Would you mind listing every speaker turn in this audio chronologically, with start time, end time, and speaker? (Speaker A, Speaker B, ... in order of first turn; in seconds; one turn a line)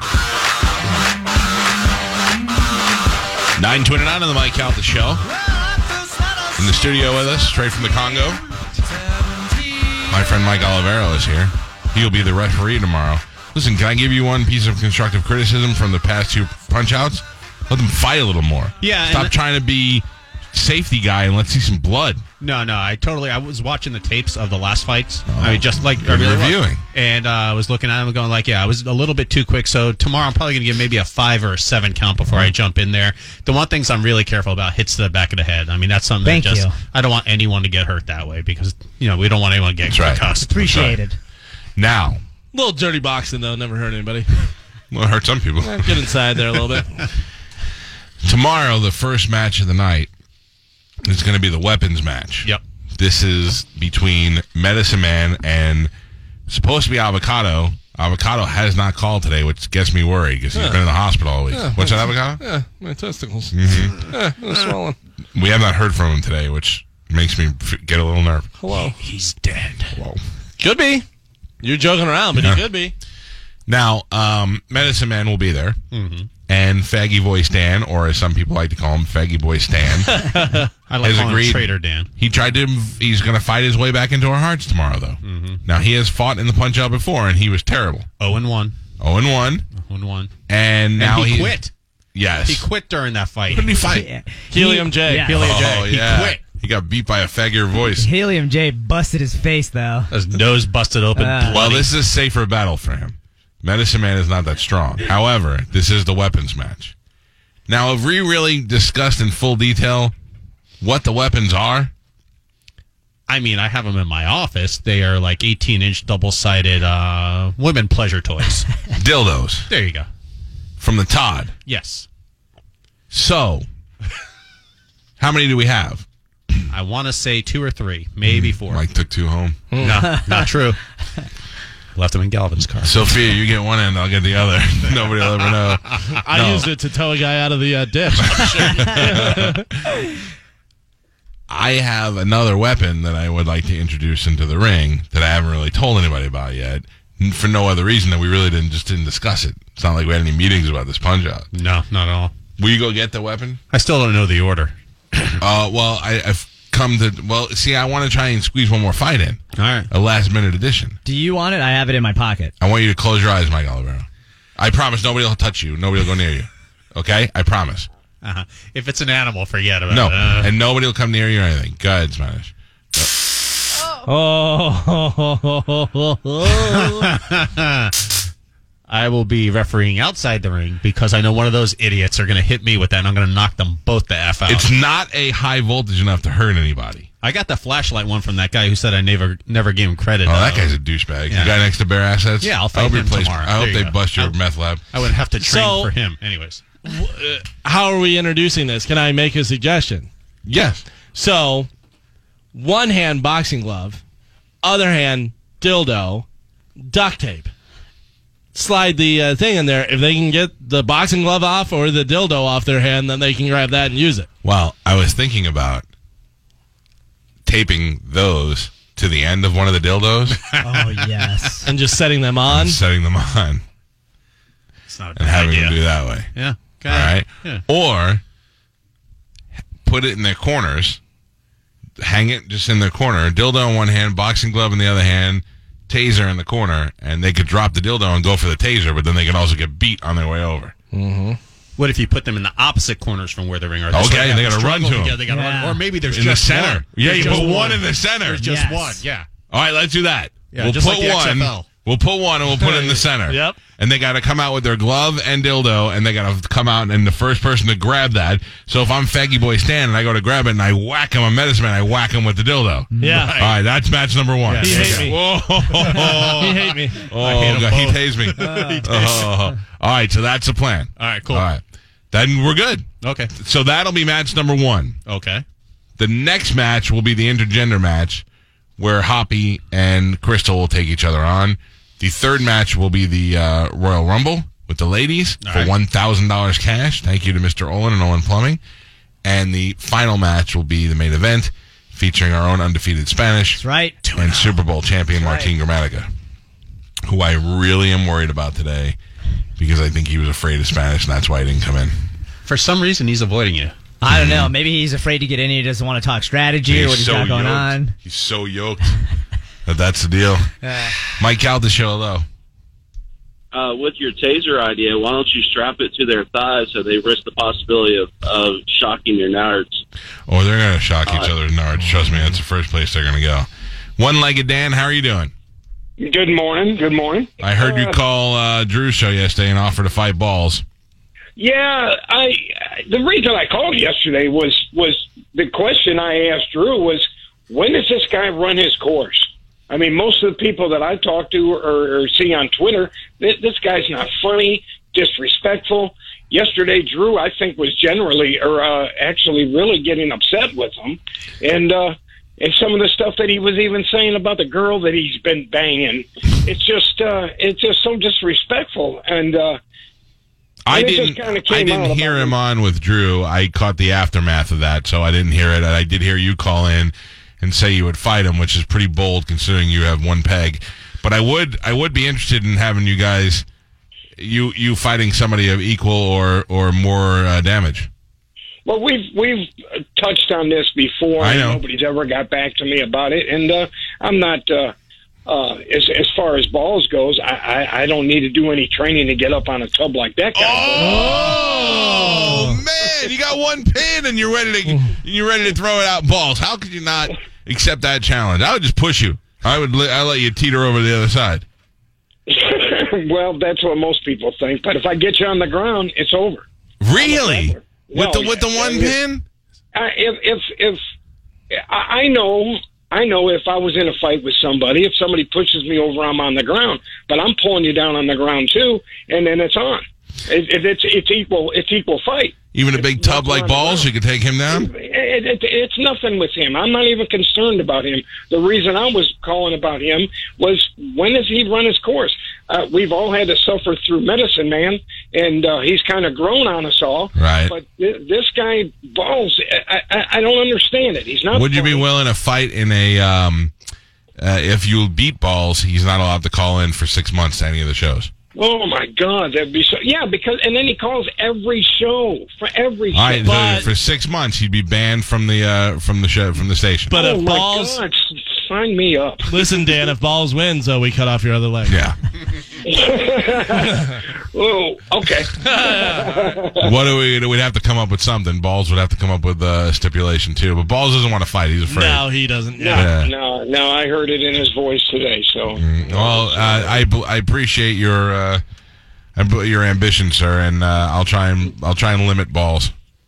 Speaker A: 3.6-5.2
Speaker A: 6.6-8.4
Speaker A: 10.1-22.2
Speaker B: 18.8-19.4
Speaker B: 22.4-40.9
Speaker A: 25.3-26.8
Speaker C: 36.2-36.8
Speaker A: 39.9-41.0
Speaker C: 40.3-41.2
Speaker A: 41.8-42.2
Speaker D: 42.5-44.5
Speaker A: 44.9-46.1
Speaker D: 45.6-47.1
Speaker A: 48.2-50.1
Speaker A: 51.0-55.9
Speaker A: 56.5-62.4
Speaker D: 60.5-60.8
Speaker D: 61.5-65.0
Speaker A: 63.5-64.0
Speaker A: 65.3-68.5
Speaker D: 68.6-69.0
Speaker B: 69.0-69.8
Speaker A: 69.9-70.2
Speaker D: 70.6-71.0
Speaker D: 71.6-72.9
Speaker A: 72.4-72.7
Speaker A: 73.7-75.8
Speaker B: 75.9-76.3
Speaker A: 76.5-80.2
Speaker D: 80.1-80.7
Speaker B: 80.9-82.1
Speaker A: 81.0-88.1
Speaker B: 85.2-85.6
Speaker B: 88.2-88.7
Speaker A: 89.0-89.7
Speaker B: 89.7-90.3
Speaker A: 90.5-91.6
Speaker B: 91.0-91.7
Speaker A: 92.2-92.7
Speaker B: 92.4-93.8
Speaker A: 93.5-94.1
Speaker C: 93.8-95.6
Speaker D: 94.5-95.3
Speaker B: 95.2-96.4
Speaker A: 95.4-98.1
Speaker C: 98.0-100.2
Speaker B: 100.1-101.9
Speaker C: 101.2-101.7
Speaker A: 101.5-106.9
Speaker A: 107.7-110.1
Speaker A: 110.8-111.9
Speaker B: 113.3-118.7
Speaker A: 118.9-119.7
Speaker B: 119.7-120.1
Speaker A: 120.8-121.5
Speaker B: 121.7-122.1
Speaker A: 123.1-123.7
Speaker A: 125.2-126.1
Speaker B: 126.7-128.8
Speaker A: 128.3-129.7
Speaker D: 129.7-130.1
Speaker B: 129.8-130.8
Speaker C: 130.0-130.5
Speaker B: 132.0-133.1
Speaker A: 132.8-136.7
Speaker D: 136.2-139.7
Speaker A: 138.2-139.7
Speaker A: 141.5-151.5
Speaker B: 151.5-152.3
Speaker A: 152.6-153.6
Speaker B: 153.7-155.4
Speaker A: 155.4-161.0
Speaker B: 159.6-159.9
Speaker C: 161.1-162.5
Speaker A: 162.6-167.9
Speaker B: 168.2-170.5
Speaker A: 169.9-173.1
Speaker D: 174.0-177.1
Speaker B: 176.4-177.9
Speaker B: 178.9-184.7
Speaker A: 184.5-187.1
Speaker B: 187.2-190.7
Speaker A: 190.2-194.8
Speaker B: 191.3-191.6
Speaker B: 192.4-194.3
Speaker B: 194.9-196.6
Speaker D: 195.4-195.9
Speaker D: 196.8-200.1
Speaker A: 200.5-200.8
Speaker D: 201.1-201.7
Speaker D: 202.5-204.0
Speaker D: 204.6-206.2
Speaker D: 206.8-207.5
Speaker D: 208.5-214.3
Speaker A: 214.4-215.9
Speaker A: 217.4-220.4
Speaker B: 220.4-221.7
Speaker C: 220.6-221.7
Speaker D: 221.7-222.8
Speaker A: 222.5-223.6
Speaker B: 224.9-225.8
Speaker A: 225.2-226.3
Speaker B: 226.3-227.6
Speaker A: 226.9-228.2
Speaker A: 229.8-231.0
Speaker A: 232.0-240.7
Speaker D: 240.9-241.4
Speaker B: 241.8-249.3
Speaker A: 243.9-245.3
Speaker C: 245.3-245.9
Speaker A: 246.1-248.5
Speaker C: 248.4-249.1
Speaker A: 249.5-275.0
Speaker B: 250.5-251.7
Speaker D: 252.6-253.6
Speaker C: 262.9-263.3
Speaker D: 263.0-263.5
Speaker B: 263.0-263.6
Speaker B: 264.5-265.2
Speaker D: 264.6-265.1
Speaker B: 265.7-269.4
Speaker D: 266.4-267.0
Speaker C: 268.4-269.1
Speaker B: 271.0-271.5
Speaker B: 273.0-273.3
Speaker B: 275.1-275.4
Speaker A: 276.0-278.2
Speaker A: 278.8-288.6
Speaker B: 285.4-285.7
Speaker A: 289.2-293.6
Speaker C: 293.6-294.4
Speaker B: 294.1-294.5
Speaker A: 294.1-296.1
Speaker C: 295.1-295.5
Speaker A: 297.0-299.0
Speaker A: 299.6-302.0
Speaker B: 302.5-303.8
Speaker C: 304.0-307.9
Speaker A: 304.1-304.6
Speaker A: 306.6-309.0
Speaker A: 309.7-310.5
Speaker C: 310.6-311.0
Speaker A: 311.1-312.3
Speaker E: 313.5-319.9
Speaker A: 320.3-325.3
Speaker E: 321.1-321.3
Speaker F: 326.0-328.0
Speaker A: 327.4-330.6
Speaker F: 331.4-359.6
Speaker A: 360.7-373.5
Speaker F: 360.7-362.3
Speaker A: 374.2-377.9
Speaker F: 378.7-384.7
Speaker A: 381.2-381.6
Speaker F: 385.3-391.2
Speaker A: 390.4-401.5
Speaker D: 391.0-391.3
Speaker F: 402.3-406.5
Speaker A: 406.8-409.2
Speaker F: 407.0-409.0
Speaker F: 409.7-410.8
Speaker F: 411.7-422.4
Speaker A: 422.5-424.7
Speaker F: 423.0-423.9
Speaker F: 424.5-441.9
Speaker A: 437.1-437.5
Speaker A: 441.3-443.5
Speaker A: 444.2-448.1
Speaker F: 448.4-453.6
Speaker A: 452.9-456.9
Speaker D: 453.2-453.7
Speaker D: 456.9-457.8
Speaker F: 456.9-459.5
Speaker D: 459.3-461.8
Speaker A: 461.7-462.0
Speaker F: 462.6-466.7
Speaker D: 465.4-466.3
Speaker A: 466.6-472.1
Speaker D: 471.7-472.9
Speaker F: 472.6-476.8
Speaker A: 472.7-473.1
Speaker A: 475.6-478.4
Speaker A: 479.2-482.7